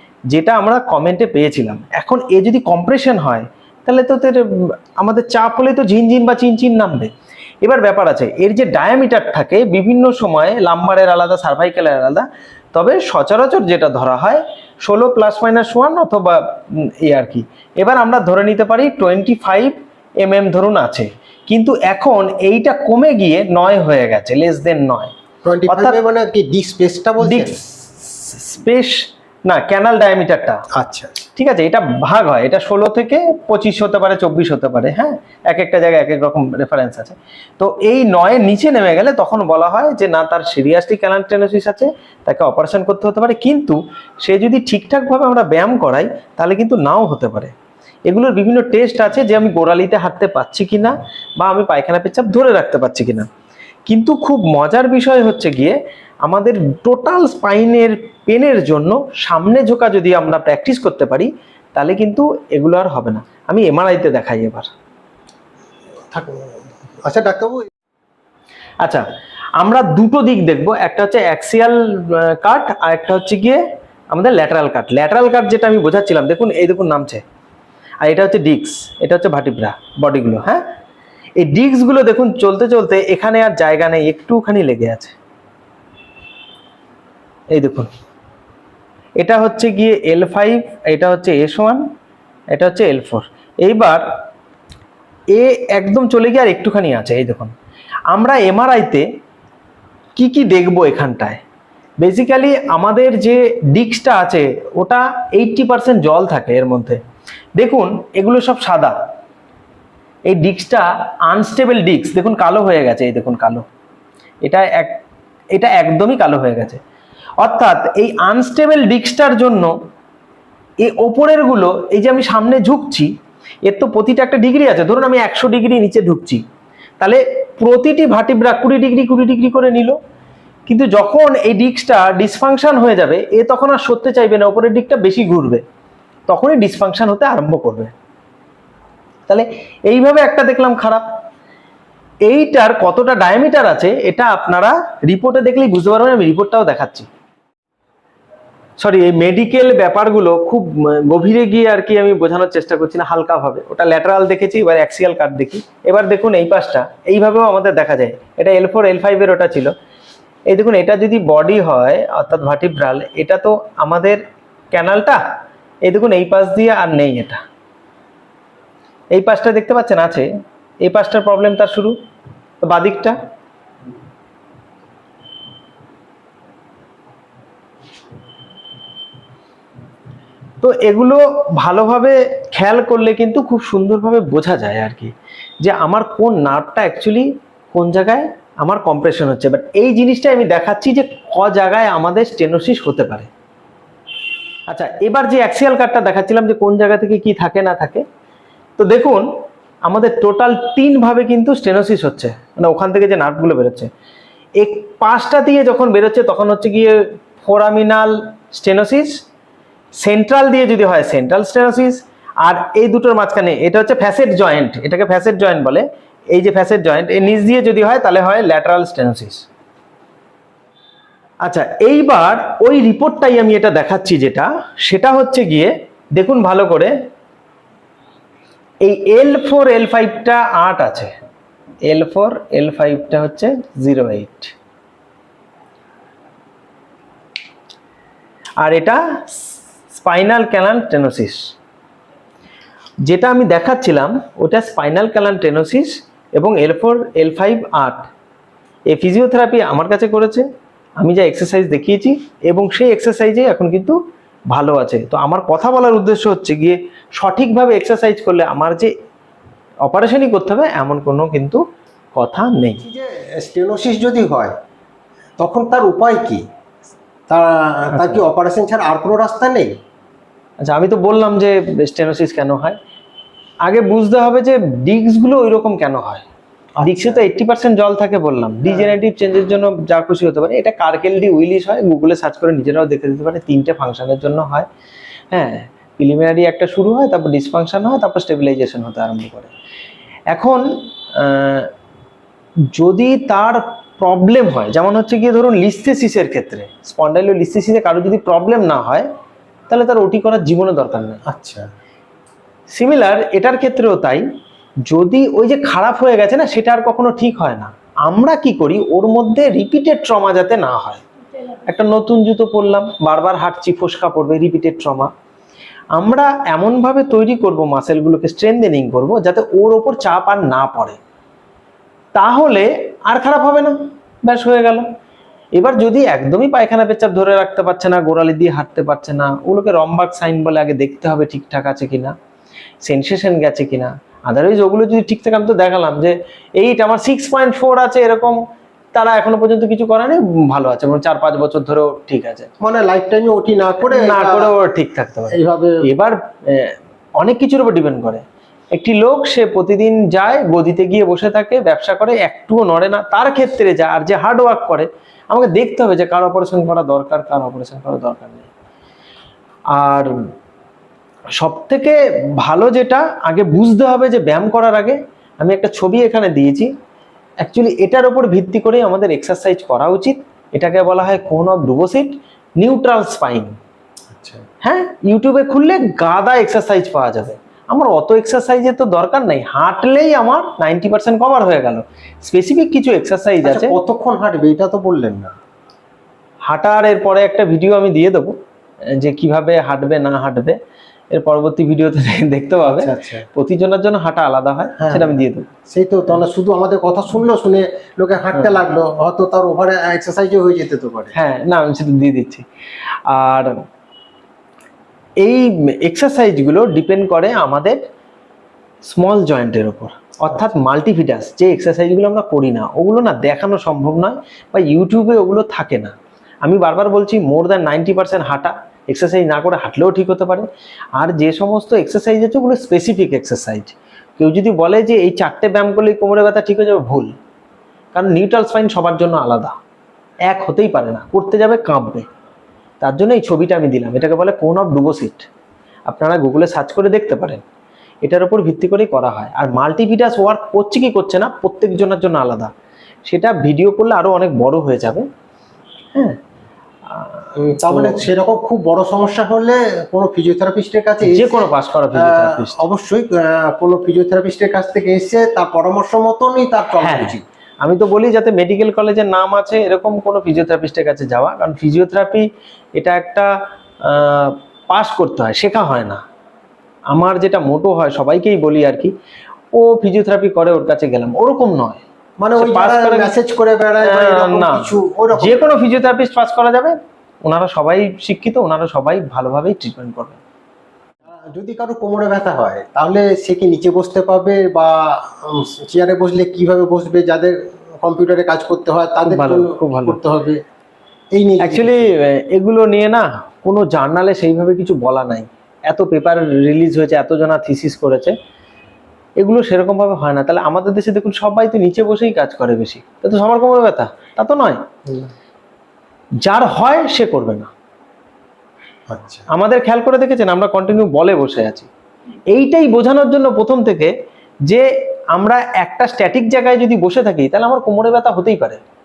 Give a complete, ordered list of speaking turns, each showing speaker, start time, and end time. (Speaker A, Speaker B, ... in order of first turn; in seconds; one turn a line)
Speaker A: 0.3-25.1
Speaker B: 25.4-27.6
Speaker A: 25.7-26.0
Speaker A: 27.2-30.6
Speaker B: 30.7-31.3
Speaker A: 31.4-47.5
Speaker A: 48.1-53.3
Speaker A: 53.9-64.7
Speaker B: 66.1-67.7
Speaker A: 69.6-73.6
Speaker A: 74.1-77.2
Speaker A: 78.0-80.6
Speaker A: 81.4-85.1
Speaker A: 87.5-87.9
Speaker A: 89.2-91.8
Speaker A: 92.5-94.0
Speaker A: 95.3-97.5
Speaker A: 98.1-99.0
Speaker A: 100.2-101.4
Speaker A: 102.0-107.0
Speaker A: 107.6-109.0
Speaker A: 110.2-113.7
Speaker A: 114.4-115.0
Speaker A: 115.5-116.8
Speaker A: 117.4-119.8
Speaker A: 120.8-123.1
Speaker A: 123.6-126.4
Speaker A: 127.0-130.0
Speaker A: 130.7-135.6
Speaker A: 136.3-137.9
Speaker A: 139.3-141.0
Speaker A: 142.2-147.1
Speaker A: 148.8-159.7
Speaker A: 160.5-165.2
Speaker A: 165.8-167.4
Speaker A: 169.1-170.3
Speaker A: 170.8-172.0
Speaker A: 172.6-173.2
Speaker A: 180.6-193.3
Speaker A: 194.7-198.0
Speaker A: 198.8-199.3
Speaker A: 199.8-203.9
Speaker A: 204.6-209.2
Speaker A: 210.0-219.4
Speaker A: 221.4-226.9
Speaker A: 228.8-231.1
Speaker A: 231.8-234.5
Speaker A: 238.6-241.4
Speaker A: 243.0-248.1
Speaker A: 248.9-250.5
Speaker A: 251.0-254.0
Speaker A: 254.5-258.9
Speaker A: 259.9-261.6
Speaker A: 262.1-262.8
Speaker B: 262.8-264.5
Speaker B: 265.4-266.4
Speaker B: 267.3-269.8
Speaker A: 267.9-268.2
Speaker A: 270.6-272.8
Speaker A: 273.6-276.2
Speaker B: 276.8-277.2
Speaker A: 276.8-284.7
Speaker B: 278.6-278.9
Speaker A: 285.3-289.5
Speaker A: 290.3-291.7
Speaker A: 292.7-299.1
Speaker A: 299.7-301.2
Speaker B: 301.2-301.6
Speaker A: 302.7-304.2
Speaker A: 304.9-311.0
Speaker A: 311.7-315.1
Speaker A: 315.9-321.0
Speaker A: 322.1-324.8
Speaker A: 325.5-332.1
Speaker A: 332.8-338.4
Speaker A: 338.9-342.5
Speaker B: 342.6-344.5
Speaker A: 343.9-358.5
Speaker B: 345.3-345.8
Speaker A: 359.7-360.1
Speaker A: 361.4-366.7
Speaker A: 367.4-373.6
Speaker B: 374.1-374.5
Speaker A: 374.6-383.8
Speaker B: 383.4-385.3
Speaker A: 386.4-388.4
Speaker A: 388.9-390.6
Speaker A: 391.1-395.5
Speaker B: 392.7-393.2
Speaker B: 394.8-401.1
Speaker A: 401.1-402.4
Speaker A: 403.1-403.5
Speaker A: 405.2-407.8
Speaker A: 408.8-427.1
Speaker A: 427.9-429.6
Speaker A: 430.3-432.1
Speaker A: 432.8-435.3
Speaker A: 435.9-437.4
Speaker A: 438.0-442.5
Speaker A: 443.1-445.1
Speaker A: 446.9-448.1
Speaker B: 447.4-457.2
Speaker A: 451.0-452.6
Speaker A: 456.8-463.3
Speaker A: 463.8-466.0
Speaker A: 466.9-468.9
Speaker A: 469.5-471.8
Speaker B: 472.2-475.5
Speaker A: 472.4-473.1
Speaker A: 473.8-480.2
Speaker B: 481.0-490.4
Speaker A: 489.1-490.0
Speaker B: 491.1-491.9
Speaker A: 491.4-498.1
Speaker A: 499.2-504.6
Speaker B: 504.9-505.1
Speaker A: 506.2-507.5
Speaker B: 508.9-509.2
Speaker A: 509.3-511.7
Speaker A: 512.3-513.9
Speaker A: 514.5-518.6